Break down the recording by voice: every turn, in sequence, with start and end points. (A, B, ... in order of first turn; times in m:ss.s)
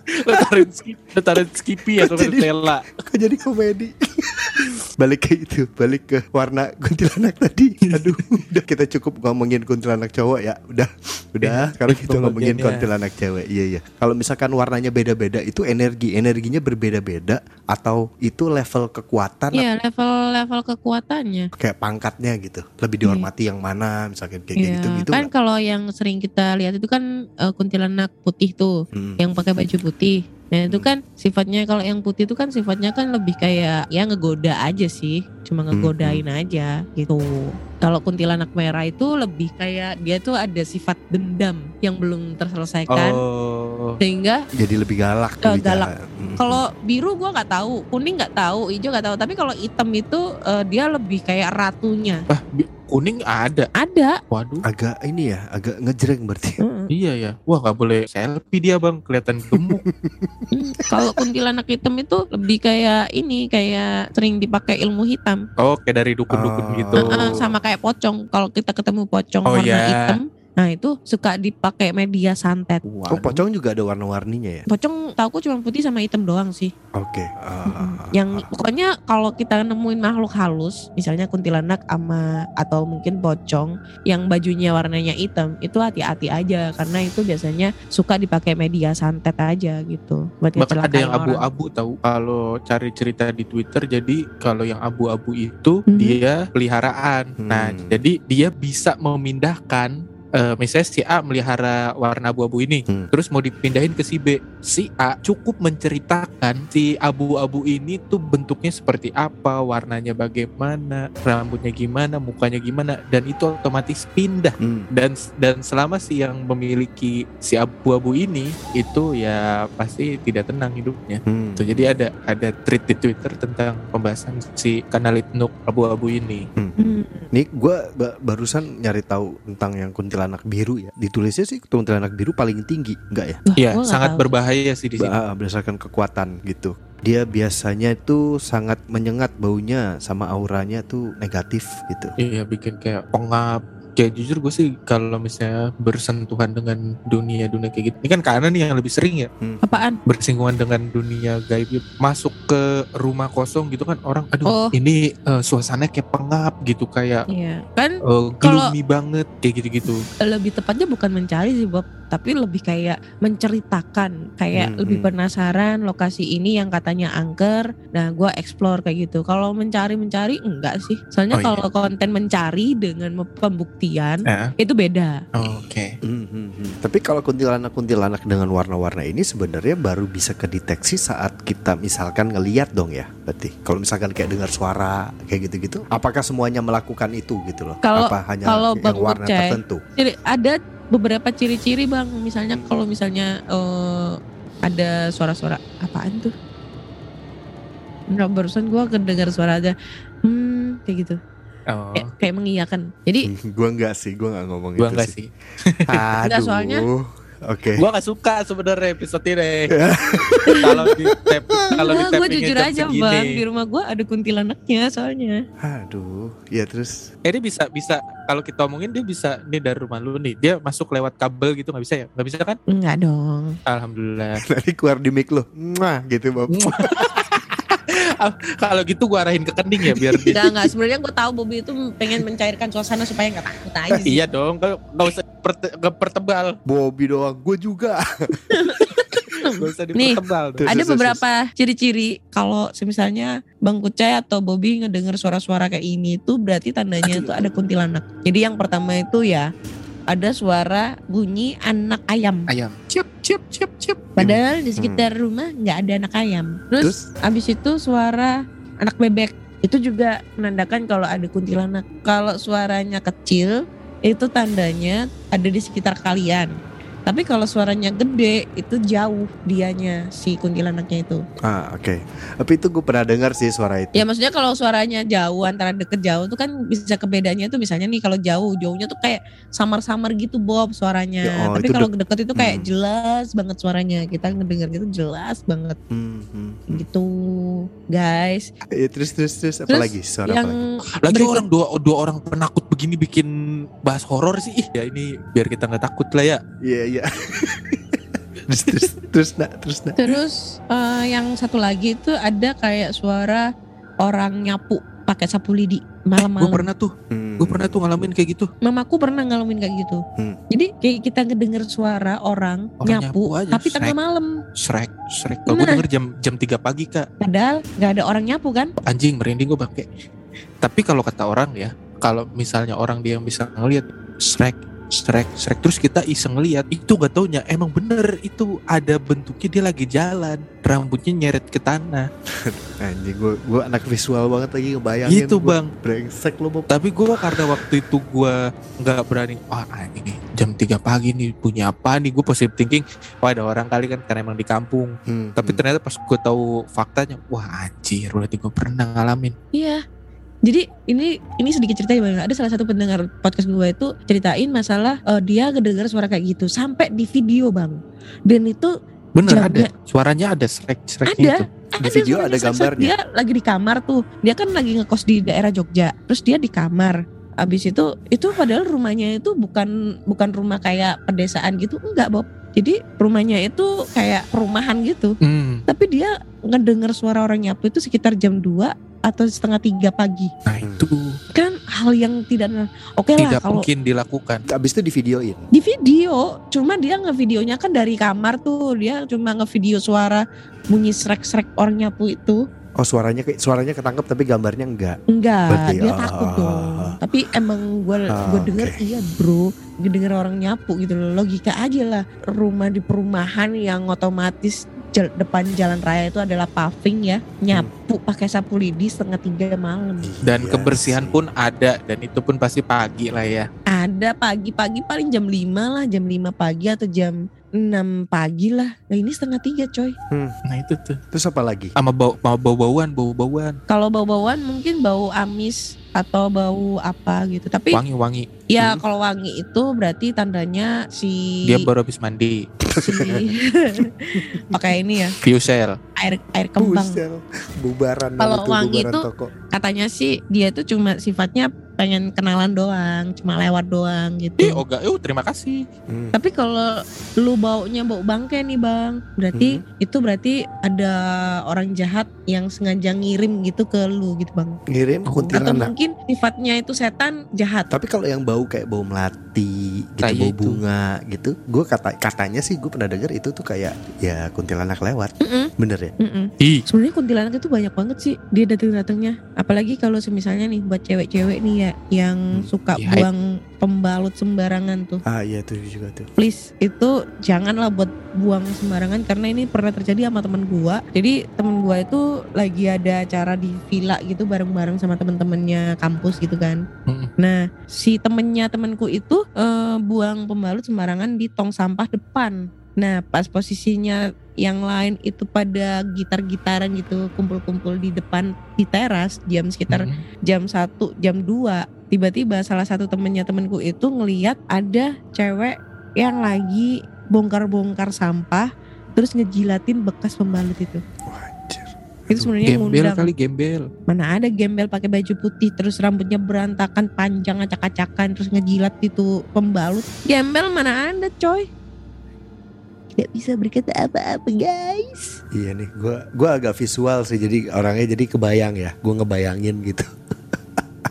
0:00.2-0:02.8 A
0:02.0-0:19.7 B
0:07.9-0:08.2 A
0:11.4-0:12.9 A
0:19.6-0:21.5 C
0:21.6-0:25.3 B
0:24.6-0:37.2 C
0:29.0-0:29.2 B
0:30.7-0:30.9 B
0:35.7-0:36.2 B
0:37.8-0:43.2 C
0:42.9-0:44.0 A
0:44.0-0:44.4 C
0:44.6-0:46.6 B
0:45.4-0:45.9 C
0:46.4-0:52.2 C
0:52.3-0:53.7 A
0:53.8-0:54.2 C
0:54.3-0:54.6 A
0:54.7-0:56.6 B
0:56.6-0:56.9 C
0:56.9-0:59.8 A
0:59.5-1:01.1 B
1:00.5-1:05.4 C
1:05.6-1:07.4 A
1:06.3-1:07.4 B
1:07.0-1:12.8 C
1:09.5-1:10.2 A
1:12.8-1:13.4 A
1:13.1-1:14.6 B
1:14.7-1:16.7 C
1:17.0-1:18.5 B
1:17.7-1:31.4 C
1:30.6-2:06.4 A
1:35.9-1:36.2 C
1:37.4-1:38.0 B
1:54.6-1:54.9 B
2:01.3-2:02.0 B
2:06.8-2:07.3 C
2:07.3-2:13.4 B
2:13.5-2:14.3 C
2:13.6-2:15.1 A
2:15.0-2:22.2 B
2:22.2-2:29.3 A
2:29.6-2:30.0 C
2:30.1-2:37.3 A
2:34.5-2:34.8 C
2:37.3-2:38.7 C
2:38.1-2:40.1 A
2:40.3-2:55.1 C
2:44.6-2:45.1 B
2:51.3-2:51.6 A
2:54.3-2:54.5 A
2:55.4-2:56.0 A
2:56.0-3:09.8 B
3:07.8-3:14.1 C
3:14.7-3:16.3 C
3:18.1-3:19.7 C
3:20.3-3:21.2 C
3:21.7-3:22.1 A
3:22.0-3:23.3 C
3:23.3-3:25.1 B
3:24.8-3:26.1 A
3:25.9-3:27.8 B
3:26.2-3:26.8 C
3:27.8-3:29.8 A
3:29.8-3:32.0 B
3:30.6-3:33.4 A
3:31.7-3:35.4 C
3:35.6-3:37.1 B
3:37.3-3:42.6 A
3:42.7-3:43.5 C
3:43.7-3:44.4 A
3:44.5-3:47.0 B
3:46.5-3:50.5 A
3:50.0-3:50.4 B
3:50.3-3:54.2 C
3:54.0-3:56.6 A
3:56.7-3:58.4 B
3:58.5-4:09.5 C
3:59.6-4:01.1 A
4:00.6-4:01.2 B
4:07.0-4:07.5 A
4:10.1-4:12.5 C
4:12.5-4:14.4 A
4:14.2-4:23.5 C
4:14.2-4:15.1 B
4:24.1-4:26.5 C
4:27.1-4:31.2 C
4:31.4-4:34.0 B
4:34.0-4:45.8 C
4:41.2-4:42.7 B
4:45.9-4:46.8 B
4:46.7-4:47.1 C
4:48.0-4:48.4 C
4:48.8-4:50.6 B
4:49.7-4:51.4 C
4:51.0-4:53.3 A
4:53.8-4:56.4 A
4:56.6-5:00.0 B
5:00.0-5:03.4 C
5:04.0-5:06.7 C
5:06.2-5:08.5 A
5:07.1-5:07.8 B
5:08.7-5:10.0 C
5:10.5-5:14.3 C
5:12.8-5:14.0 A
5:14.6-5:17.1 A
5:15.5-5:15.8 C
5:17.2-5:18.7 C
5:18.8-5:19.9 A
5:20.6-5:32.1 A
5:32.4-5:36.7 B
5:35.1-5:35.7 A
5:36.7-5:49.4 A
5:45.1-5:45.6 B
5:49.5-5:49.8 C
5:50.5-5:57.8 C
5:58.3-5:58.7 C
5:59.2-6:01.5 A
5:59.2-5:59.7 C
6:01.1-6:15.1 C
6:01.8-6:02.9 B
6:15.2-6:15.6 A
6:15.7-6:20.3 C
6:20.5-6:21.2 A
6:21.3-6:23.7 C
6:23.2-6:24.4 A
6:24.5-6:25.4 B
6:25.5-6:32.4 C
6:32.8-6:35.0 B
6:35.1-6:50.1 C
6:35.5-6:37.0 B
6:38.1-6:38.9 B
6:50.0-6:51.2 B
6:50.2-6:53.5 A
6:53.7-6:57.1 C
6:57.6-6:59.9 C
7:00.5-7:01.0 A
7:01.1-7:01.7 B
7:01.8-7:03.6 A
7:03.7-7:07.8 C
7:07.7-7:08.3 A
7:08.5-7:11.7 C
7:11.5-7:12.5 A
7:12.7-7:13.3 B
7:12.8-7:13.7 C
7:14.2-7:14.6 B
7:14.4-7:15.2 C
7:15.2-7:15.8 A
7:16.0-7:17.0 C
7:16.6-7:19.3 B
7:18.2-7:24.6 C
7:24.4-7:25.7 A
7:25.9-7:26.2 B
7:26.2-7:26.7 C
7:27.2-7:30.9 C
7:29.4-7:29.6 B
7:31.5-7:34.6 C
7:34.7-7:35.7 B
7:35.1-7:35.4 A
7:35.3-7:37.7 C
7:37.7-7:45.9 B
7:40.0-7:40.6 A
7:45.2-7:45.5 C
7:46.0-7:55.0 C
7:52.8-7:53.1 A
7:55.1-7:56.1 B
7:56.2-8:06.6 C
8:07.2-8:30.8 C
8:19.7-8:20.0 A
8:31.1-8:32.4 B
8:32.1-8:33.1 C
8:32.4-8:33.7 A
8:33.9-8:41.4 C
8:43.0-8:45.0 C
8:45.3-8:49.9 B